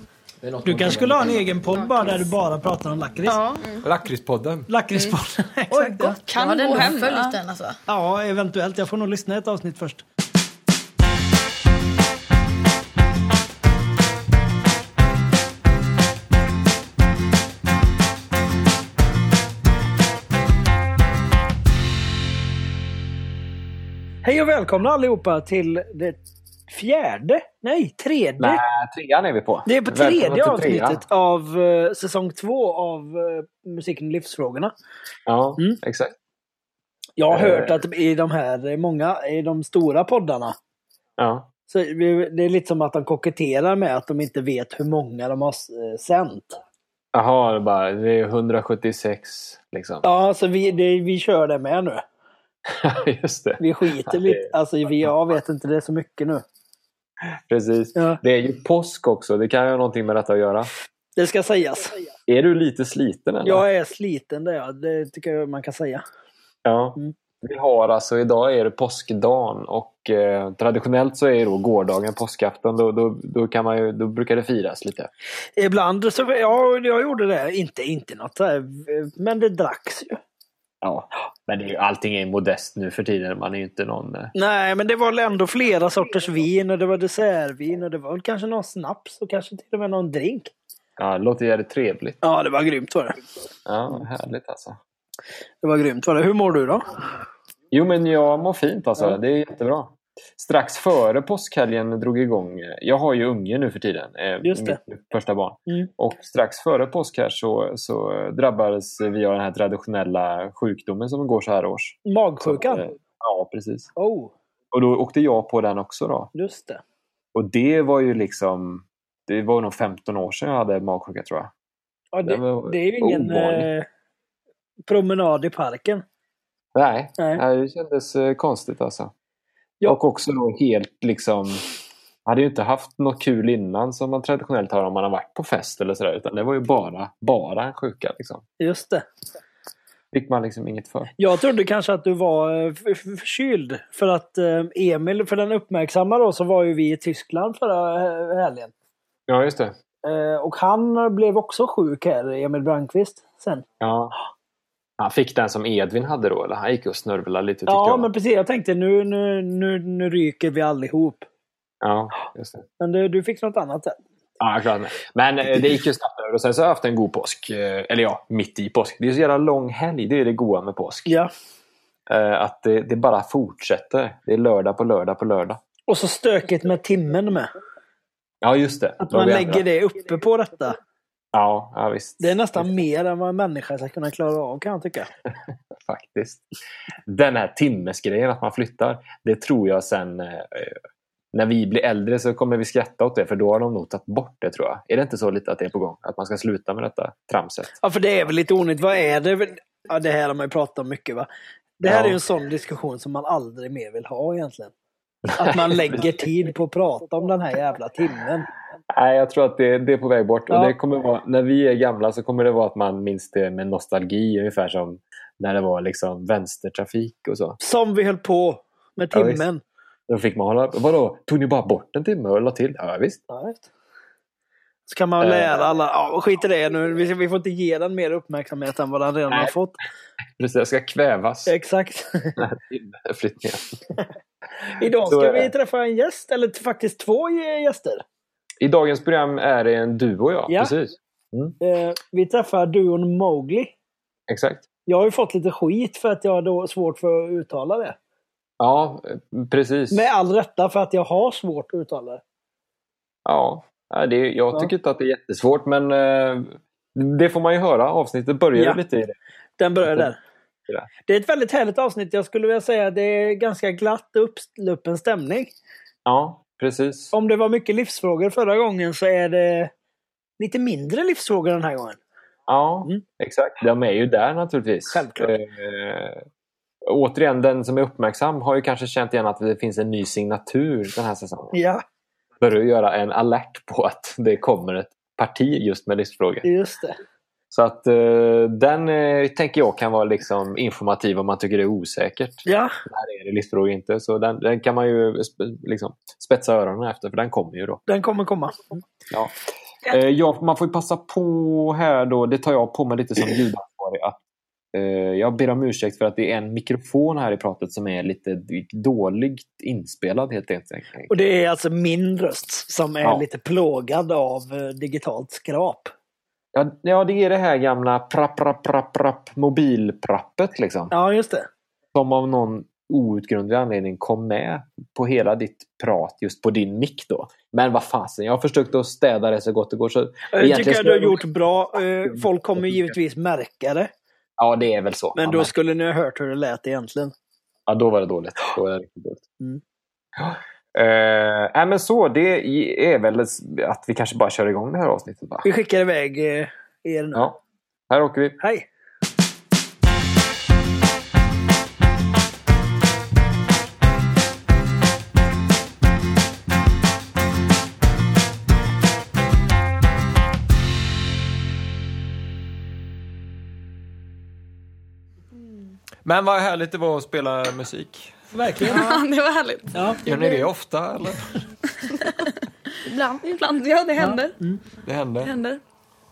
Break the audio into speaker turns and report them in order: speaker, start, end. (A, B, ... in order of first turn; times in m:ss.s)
0:00.4-0:01.6 A
0:00.6-0:03.4 B
0:01.7-0:02.2 C
0:03.2-0:03.8 C
0:03.8-0:04.7 A
0:04.7-0:06.2 B
0:05.7-0:07.8 C
0:06.3-0:07.4 D
0:07.9-0:10.0 B
0:24.2-0:28.6 B
0:28.4-0:31.0 E
0:29.6-0:34.7 B
0:35.3-0:36.1 E
0:37.2-0:40.5 B
0:37.3-0:37.8 E
0:41.2-0:41.5 E
0:41.7-0:46.6 B
0:47.1-0:50.0 E
0:50.0-0:52.0 B
0:52.7-0:54.5 E
0:53.6-0:56.4 B
0:57.5-1:00.7 E
1:01.2-1:02.0 B
1:02.3-1:03.6 E
1:03.4-1:06.0 B
1:06.6-1:15.1 E
1:15.6-1:20.2 B
1:20.8-1:24.3 E
1:24.3-1:30.5 B
1:31.0-1:32.2 E
1:32.2-1:33.2 B
1:33.6-1:34.8 E
1:35.6-1:36.9 B
1:37.7-1:53.9 E
1:44.4-1:44.8 B
1:52.0-1:52.8 B
1:54.0-1:54.3 B
1:54.7-1:56.3 E
1:56.3-1:56.8 B
1:57.3-2:01.5 E
2:02.1-2:03.9 B
2:02.2-2:03.7 E
2:04.9-2:06.0 B
2:06.7-2:09.1 E
2:09.8-2:11.6 E
2:12.2-2:18.4 E
2:18.6-2:19.0 B
2:20.1-2:21.1 E
2:21.2-2:28.7 B
2:29.3-2:29.7 E
2:30.0-2:33.6 B
2:33.8-2:34.1 E
2:35.0-2:38.1 E
2:37.7-2:41.3 B
2:41.8-2:42.6 E
2:42.8-2:44.0 B
2:44.4-2:51.1 E
2:52.1-2:55.6 E
2:55.9-2:57.5 B
2:58.4-2:59.6 E
2:59.0-3:00.8 B
3:01.3-3:02.6 E
3:02.2-3:05.1 B
3:05.7-3:06.4 E
3:07.1-3:10.8 E
3:11.3-3:17.7 E
3:17.8-3:21.3 B
3:21.8-3:24.7 B
3:21.8-3:22.2 E
3:25.3-3:26.1 E
3:25.4-3:28.5 B
3:28.9-3:37.6 E
3:30.5-3:30.7 B
3:37.6-3:39.6 B
3:39.1-3:39.4 E
3:40.1-3:43.2 E
3:43.3-3:43.6 B
3:44.9-3:49.8 B
3:45.2-3:45.6 E
3:49.3-3:49.5 E
3:50.4-3:51.5 E
3:51.5-3:52.4 B
3:52.4-3:53.7 E
3:54.8-3:58.0 B
3:55.0-3:55.5 E
3:58.6-4:01.5 E
4:01.6-4:03.7 B
4:04.3-4:04.6 E
4:04.8-4:08.0 B
4:08.6-4:10.1 E
4:09.9-4:12.2 B
4:13.2-4:19.1 E
4:19.6-4:20.2 B
4:21.1-4:25.5 B
4:26.0-4:27.1 E
4:27.1-4:29.7 B
4:30.4-4:32.0 B
4:32.5-4:36.2 E
4:34.9-4:35.3 B
4:36.9-4:41.6 E
4:41.5-4:41.8 B
4:42.4-4:46.5 E
4:46.4-4:47.0 B
4:47.5-4:57.8 E
4:52.4-4:52.7 B
4:57.9-4:58.8 B
4:59.8-5:04.2 E
5:04.7-5:11.1 E
5:11.1-5:15.9 B
5:16.5-5:20.9 E
5:20.9-5:21.5 B
5:21.9-5:31.2 E
5:30.3-5:33.9 B
5:32.1-5:32.9 E
5:34.4-5:35.5 E
5:35.2-5:37.1 B
5:37.7-5:39.2 E
5:40.2-5:45.5 E
5:45.4-5:47.2 B
5:47.9-5:48.4 E
5:48.4-5:48.6 B
6:06.0-6:08.2 A
6:08.3-6:08.8 B
6:08.6-6:09.9 D
6:08.6-6:09.0 C
6:09.7-6:10.0 B
6:10.0-6:11.4 A
6:10.1-6:10.4 C
6:11.9-6:12.4 D
6:12.8-6:13.2 C
6:13.2-6:14.4 D
6:14.0-6:14.6 B
6:14.8-6:15.3 A
6:15.2-6:15.6 D